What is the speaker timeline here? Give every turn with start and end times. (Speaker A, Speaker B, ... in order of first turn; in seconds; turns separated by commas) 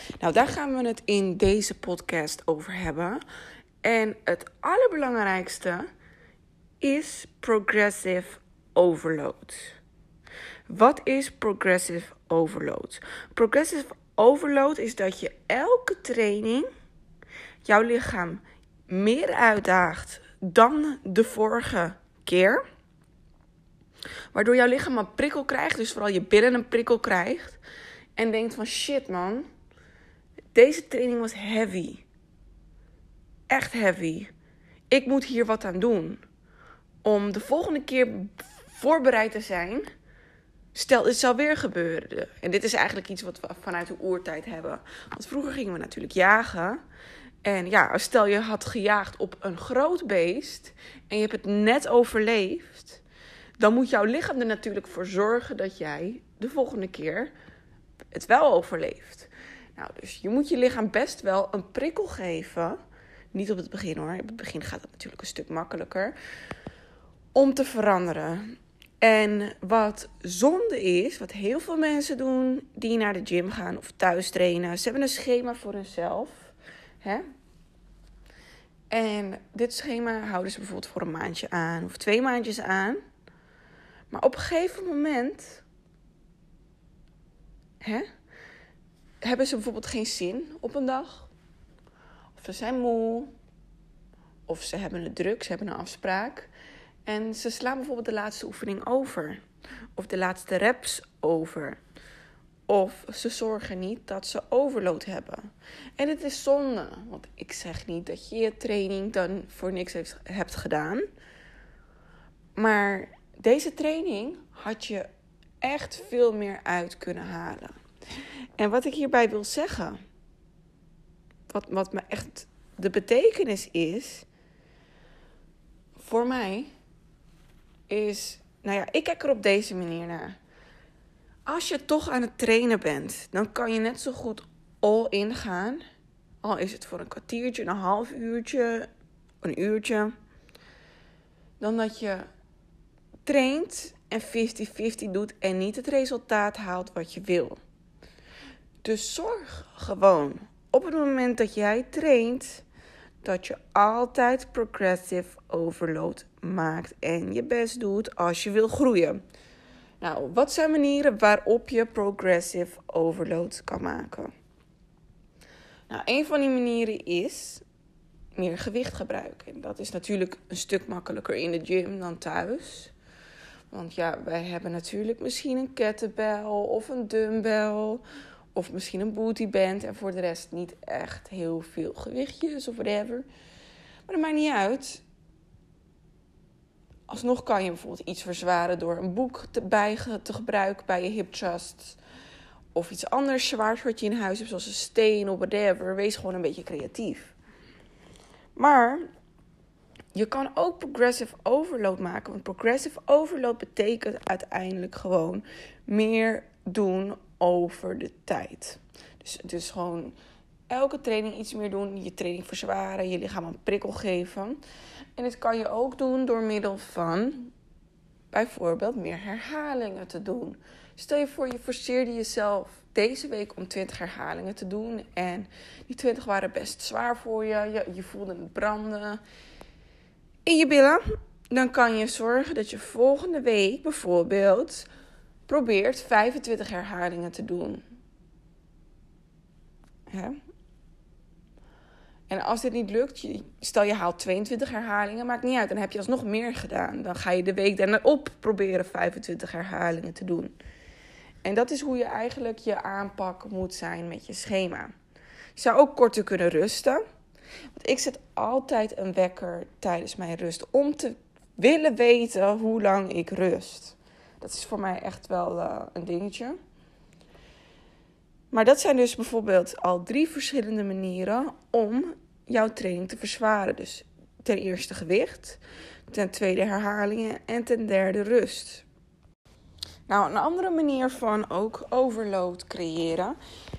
Speaker A: 0.2-3.2, Speaker A: 3.8-5.9, Speaker A: 6.8-9.8, Speaker A: 10.7-16.7, Speaker A: 17.6-22.6, Speaker A: 24.3-27.6, Speaker A: 28.2-29.5, Speaker A: 30.5-32.0, Speaker A: 33.5-34.3, Speaker A: 34.9-36.2, Speaker A: 37.0-39.9, Speaker A: 40.7-46.8, Speaker A: 47.4-53.0, Speaker A: 53.6-57.3, Speaker A: 58.1-62.8, Speaker A: 63.3-66.2, Speaker A: 67.3-77.2, Speaker A: 78.9-83.0, Speaker A: 84.1-85.6, Speaker A: 87.8-88.1, Speaker A: 89.2-91.3, Speaker A: 92.4-93.3, Speaker A: 94.5-96.5, Speaker A: 97.1-99.4, Speaker A: 100.0-101.8, Speaker A: 102.7-111.1, Speaker A: 112.6-115.1, Speaker A: 115.6-117.8, Speaker A: 118.6-120.0, Speaker A: 121.5-124.3, Speaker A: 126.0-126.7, Speaker A: 127.9-130.4, Speaker A: 131.5-135.8, Speaker A: 136.4-138.9, Speaker A: 139.4-140.2, Speaker A: 141.6-142.3, Speaker A: 143.2-147.6, Speaker A: 148.8-152.7, Speaker A: 153.2-159.2, Speaker A: 160.0-164.3, Speaker A: 165.9-167.6, Speaker A: 168.4-172.9, Speaker A: 173.7-178.0, Speaker A: 178.6-183.3, Speaker A: 184.1-185.0, Speaker A: 187.1-192.0, Speaker A: 192.8-197.3, Speaker A: 198.6-199.1, Speaker A: 200.1-210.2, Speaker A: 210.7-214.6, Speaker A: 215.2-217.5, Speaker A: 218.3-229.2, Speaker A: 230.4-234.9, Speaker A: 235.5-237.8, Speaker A: 240.1-240.4, Speaker A: 242.3-250.5, Speaker A: 251.4-254.9, Speaker A: 255.6-257.0, Speaker A: 257.8-266.6, Speaker A: 268.5-278.9, Speaker A: 280.1-283.4